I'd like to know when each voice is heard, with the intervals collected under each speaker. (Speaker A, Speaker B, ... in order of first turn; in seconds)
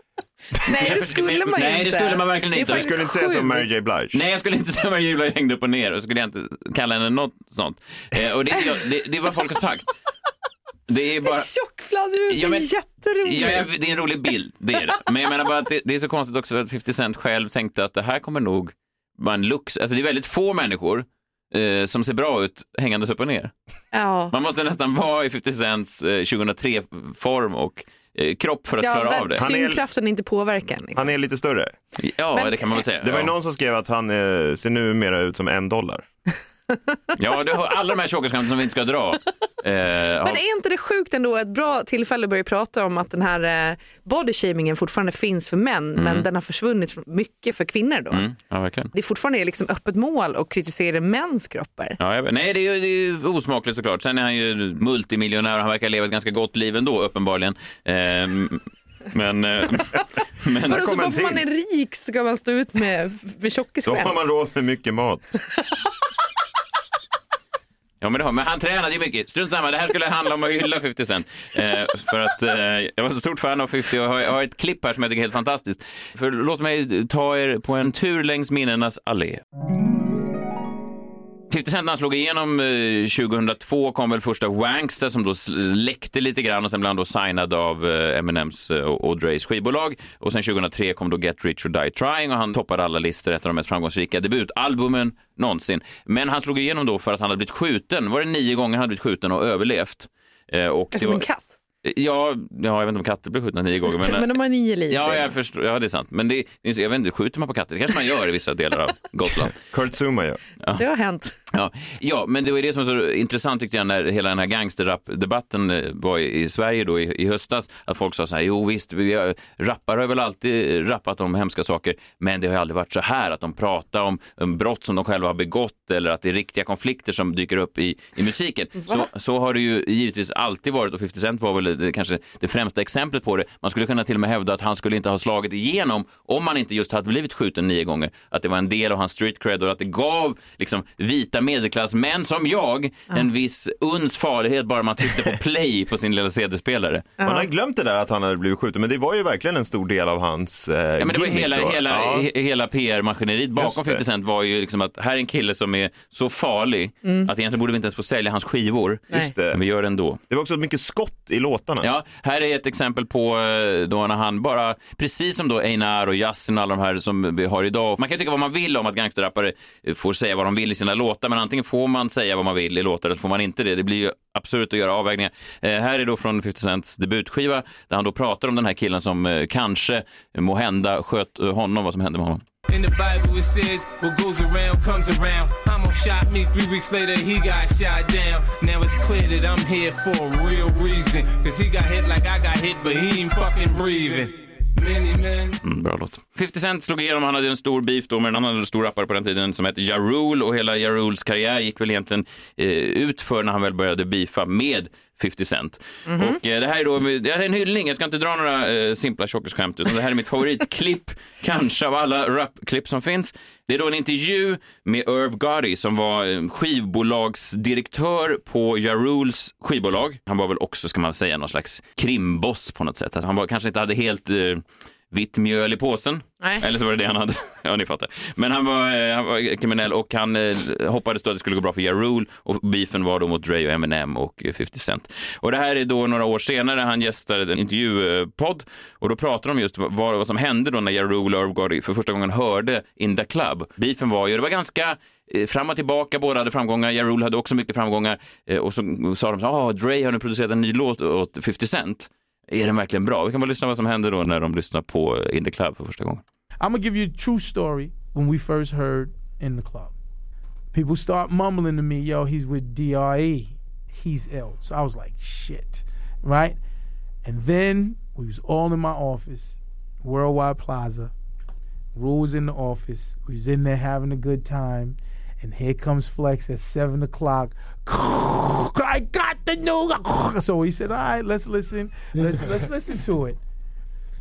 Speaker A: 0.6-3.7, 11.2-13.7, 23.9-24.3, 28.8-31.1, 40.2-48.3, 48.9-52.0, 60.7-64.2, 100.9-101.5, 104.0-105.3, 110.8-111.3, 147.2-147.5, 206.1-206.4
Speaker B: 0.7-2.9, 4.1-9.9, 10.9-11.5, 12.3-12.7, 13.2-23.5, 24.3-29.4, 32.0-33.3, 37.1-40.4, 46.0-46.3, 48.1-48.9, 52.0-60.8, 68.0-79.4, 81.5-101.2, 101.8-104.3, 104.9-109.5, 111.5-147.1, 151.0-160.2, 161.8-182.4, 195.6-256.2
Speaker C: 2.5-4.2, 29.4-29.8, 30.9-31.7, 33.0-36.1, 60.7-61.4, 63.8-65.3, 109.5-110.4, 147.2-152.3, 153.6-154.0, 159.1-159.6, 160.3-161.9
Speaker D: 182.7-195.6
Speaker E: 256.6-259.9, 260.7-266.6, 267.2-271.1, 271.9-283.4